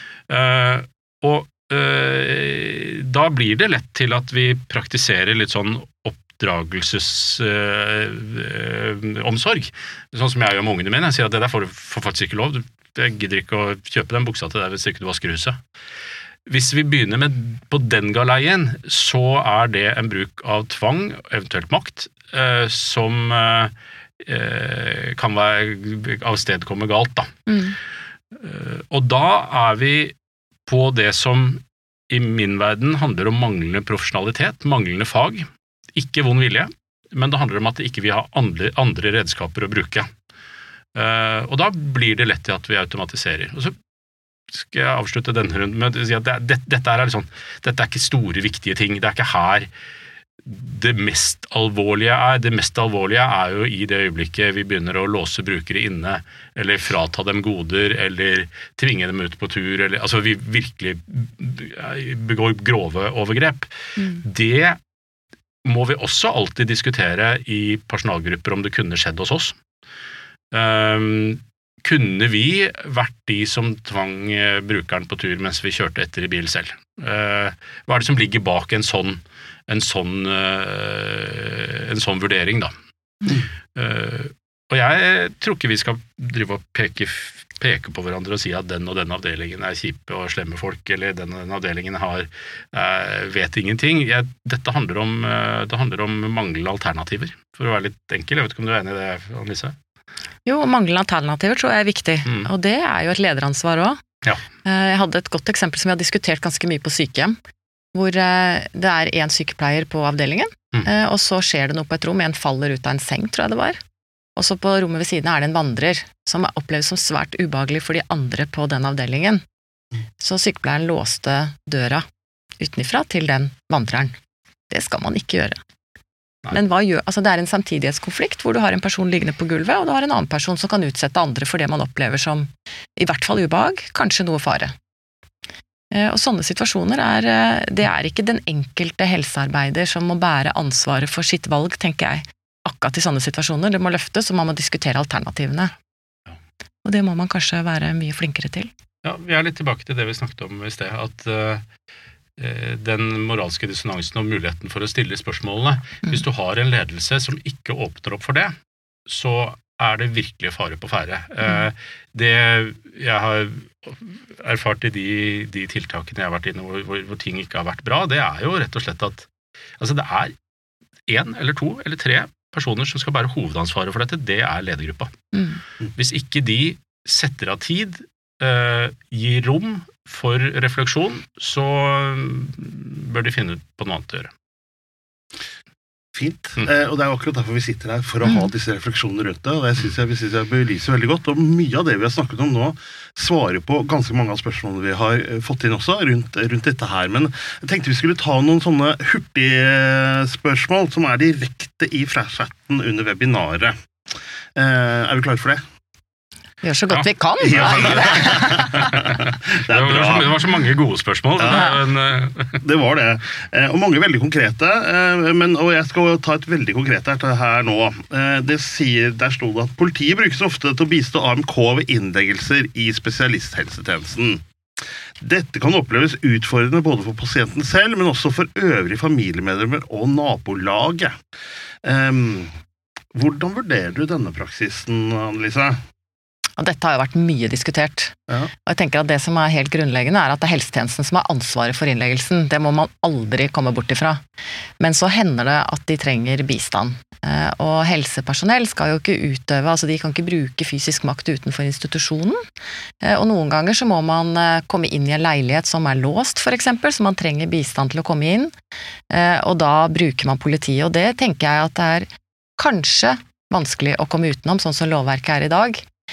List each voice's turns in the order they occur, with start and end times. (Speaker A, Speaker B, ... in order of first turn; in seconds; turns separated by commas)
Speaker A: 0.3-15.6, Speaker A: 16.5-27.4, Speaker B: 27.5-27.8, Speaker A: 28.3-30.1, Speaker A: 30.7-40.1, Speaker A: 41.0-43.8, Speaker A: 44.5-49.7, Speaker A: 50.5-64.8, Speaker A: 65.7-69.6, Speaker A: 70.5-82.7, Speaker A: 83.8-99.8, Speaker B: 100.5-104.0, Speaker B: 104.6-107.4, Speaker B: 108.0-113.8, Speaker B: 114.4-119.4, Speaker B: 120.2-122.0, Speaker B: 122.6-124.2, Speaker B: 124.7-125.6, Speaker B: 126.5-134.7, Speaker B: 135.9-145.7, Speaker B: 146.8-148.7, Speaker A: 149.0-151.6, Speaker A: 152.4-158.6, Speaker A: 159.1-169.3, Speaker A: 169.8-170.3, Speaker A: 171.1-175.1, Speaker A: 176.0-184.3, Speaker C: 186.2-203.8, Speaker C: 204.6-205.6, Speaker B: 206.6-208.9, Speaker A: 206.9-212.6, Speaker C: 207.4-210.4, Speaker C: 211.4-211.8, Speaker C: 212.6-224.4, Speaker C: 225.2-231.2, Speaker C: 231.8-232.5, Speaker C: 233.1-235.8, Speaker B: 236.6-244.2, Speaker B: 244.8-252.4, Speaker B: 253.0-258.5, Speaker B: 259.1-265.9